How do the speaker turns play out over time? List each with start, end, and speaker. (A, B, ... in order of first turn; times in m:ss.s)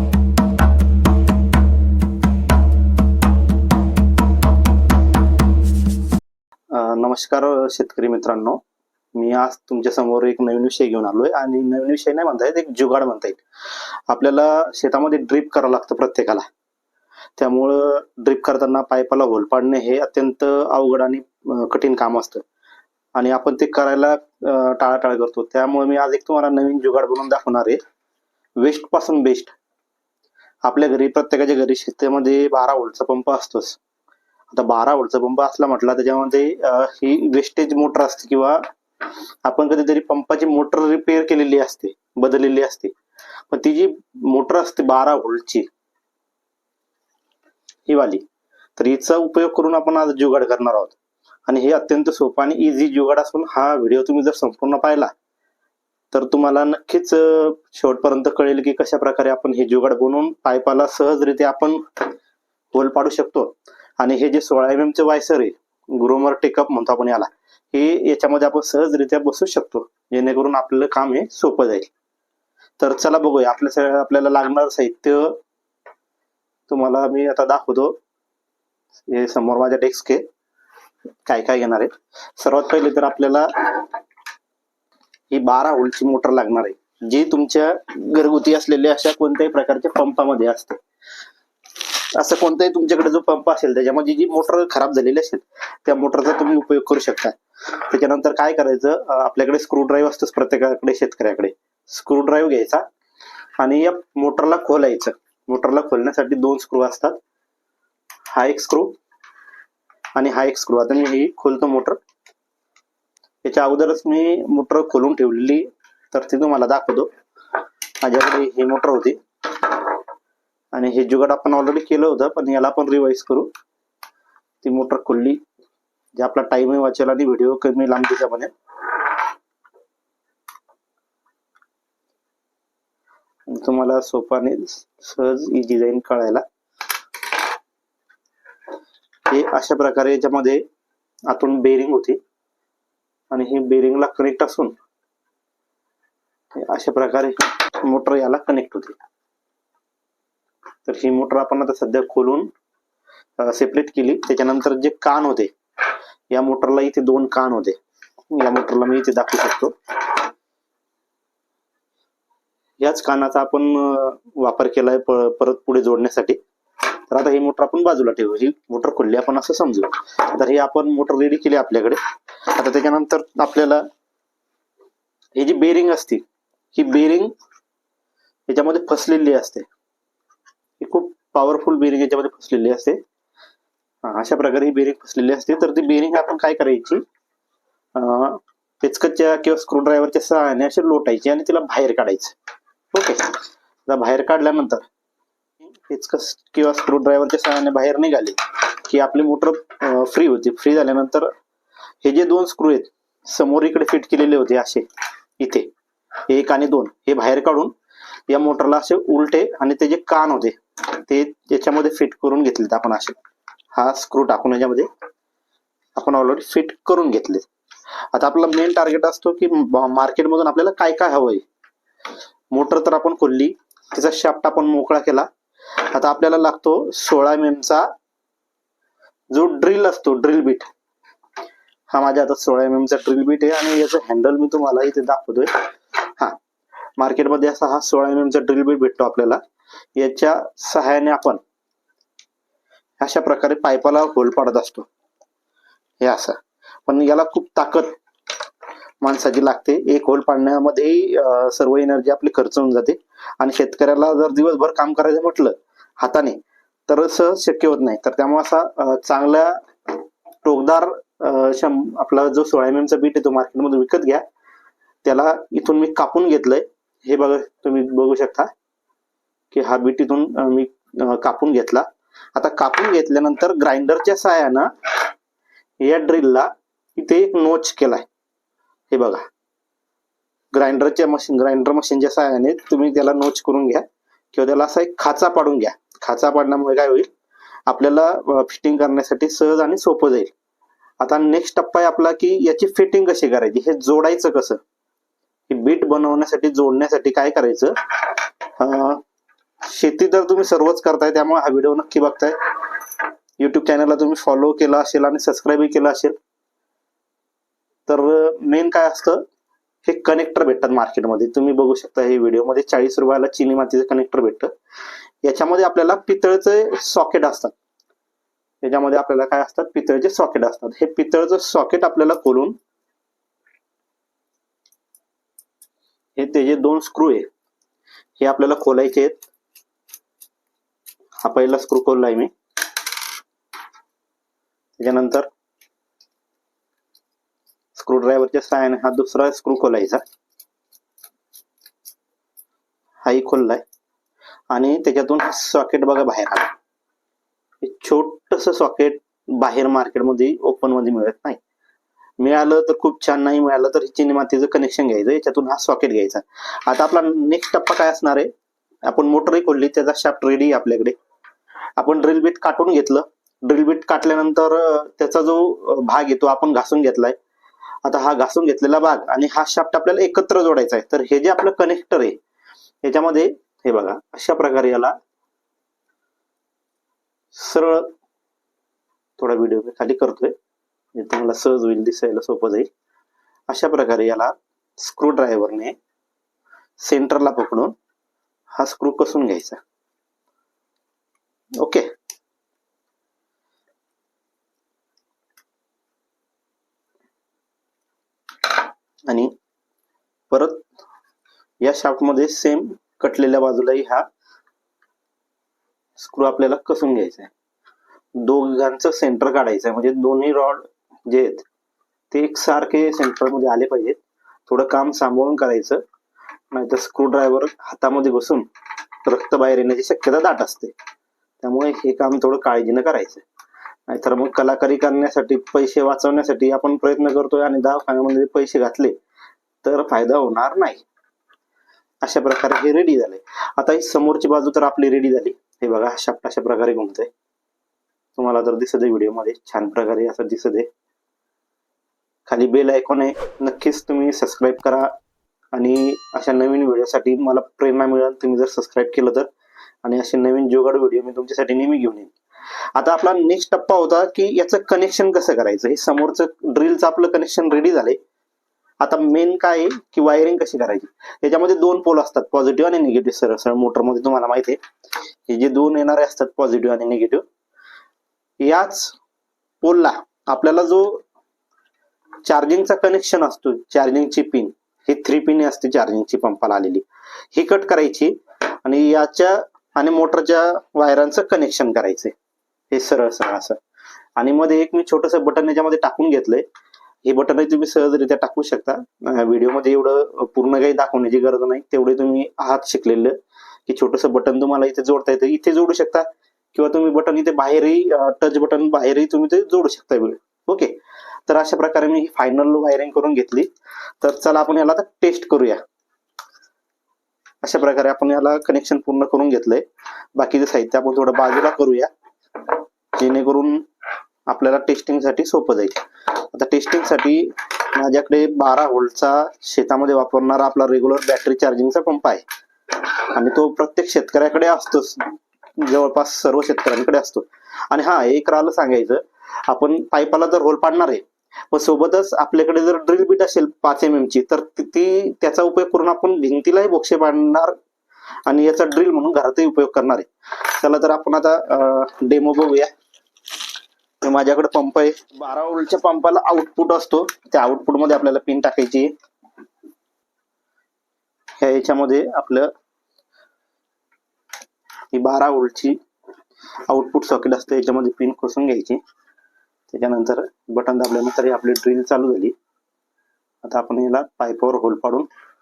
0:06.7-0:08.6 A
0:09.1-0:13.4 A
0:14.1-0:16.4 A
0:17.4-0:22.4 A
0:23.1-0:27.8 A
0:28.6-0:29.5 A
0:30.6-0:33.8 A
0:34.5-0:38.6 A
0:39.4-0:42.9 A
0:43.5-0:45.7 A
0:47.9-0:48.2 A
0:48.8-0:51.0 A
0:51.5-0:55.1 A
0:56.1-1:01.8 A
1:02.7-1:11.9 A
1:12.8-1:15.4 A
1:16.7-1:18.0 A
1:19.1-1:20.2 A
1:21.2-1:23.9 A
1:25.3-1:30.8 A
1:32.1-1:42.8 A
1:43.6-1:47.2 A
1:48.3-1:48.9 A
1:50.2-1:52.0 A
1:53.4-1:57.1 A
1:58.0-1:59.9 A
2:00.7-2:03.5 A
2:04.6-2:05.4 A
2:06.2-2:08.5 A
2:13.5-2:16.4 A
2:19.3-2:20.6 A
2:21.3-2:22.2 A
2:23.3-2:24.7 A
2:26.6-2:29.0 A
2:30.8-2:32.5 A
2:33.4-2:35.5 A
2:36.3-2:37.8 A
2:38.3-2:40.2 A
2:42.8-2:46.4 A
2:47.1-2:53.8 A
2:55.3-2:56.2 A
2:56.7-2:57.3 A
2:58.5-2:59.7 A
3:00.8-3:03.0 A
3:04.0-3:07.0 A
3:07.9-3:12.3 A
3:12.9-3:14.8 A
3:15.7-3:21.3 A
3:22.0-3:24.9 A
3:25.4-3:25.7 A
3:26.3-3:27.7 A
3:28.3-3:33.2 A
3:33.7-3:34.9 A
3:36.0-3:37.4 A
3:38.1-3:41.4 A
3:42.5-3:45.3 A
3:45.8-3:47.9 A
3:49.3-3:50.7 A
3:51.9-3:56.4 A
3:57.0-3:59.4 A
4:00.0-4:01.4 A
4:03.0-4:04.9 A
4:06.0-4:07.9 A
4:09.0-4:24.2 A
4:25.0-4:28.5 A
4:29.5-4:35.0 A
4:35.8-4:38.1 A
4:38.9-4:39.2 A
4:40.5-4:47.1 A
4:47.7-4:50.3 A
4:51.0-4:54.6 A
4:55.5-4:59.0 A
4:59.6-5:02.4 A
5:03.4-5:06.2 A
5:07.9-5:09.2 A
5:09.8-5:14.5 A
5:15.2-5:17.5 A
5:18.6-5:22.6 A
5:26.2-5:27.3 A
5:28.2-5:29.2 A
5:31.2-5:32.3 A
5:34.8-5:35.3 A
5:37.8-5:40.0 A
5:43.0-5:43.6 A
5:44.5-5:46.5 A
5:47.6-5:51.4 A
5:52.2-5:58.3 A
5:58.8-6:01.0 A
6:01.8-6:07.2 A
6:07.8-6:12.2 A
6:12.8-6:14.9 A
6:17.3-6:17.9 A
6:19.2-6:20.3 A
6:20.9-6:22.7 A
6:23.5-6:25.7 A
6:26.8-6:27.7 A
6:28.6-6:29.6 A
6:31.6-6:31.9 A
6:40.3-6:40.6 A
6:41.6-6:44.0 A
6:46.0-6:47.3 A
6:48.2-6:51.4 A
6:52.1-6:55.8 A
6:56.5-6:58.4 A
6:59.0-7:00.7 A
7:01.4-7:03.2 A
7:03.9-7:09.0 A
7:09.6-7:10.8 A
7:12.0-7:17.1 A
7:18.2-7:20.7 A
7:22.3-7:24.9 A
7:25.5-7:29.3 A
7:29.8-7:32.1 A
7:32.7-7:38.0 A
7:38.8-7:44.6 A
7:45.3-7:47.2 A
7:48.4-7:49.0 A
7:49.6-7:51.0 A
7:52.2-8:02.1 A
8:02.7-8:03.6 A
8:04.2-8:06.4 A
8:07.0-8:13.2 A
8:13.7-8:20.7 A
8:21.3-8:23.5 A
8:24.0-8:25.6 A
8:27.4-8:29.6 A
8:30.2-8:33.6 A
8:34.3-8:45.0 A
8:45.6-8:57.6 A
8:58.2-9:02.7 A
9:04.0-9:08.9 A
9:11.4-9:12.5 A
9:14.9-9:15.8 A
9:16.7-9:18.8 A
9:19.7-9:22.3 A
9:23.4-9:25.1 A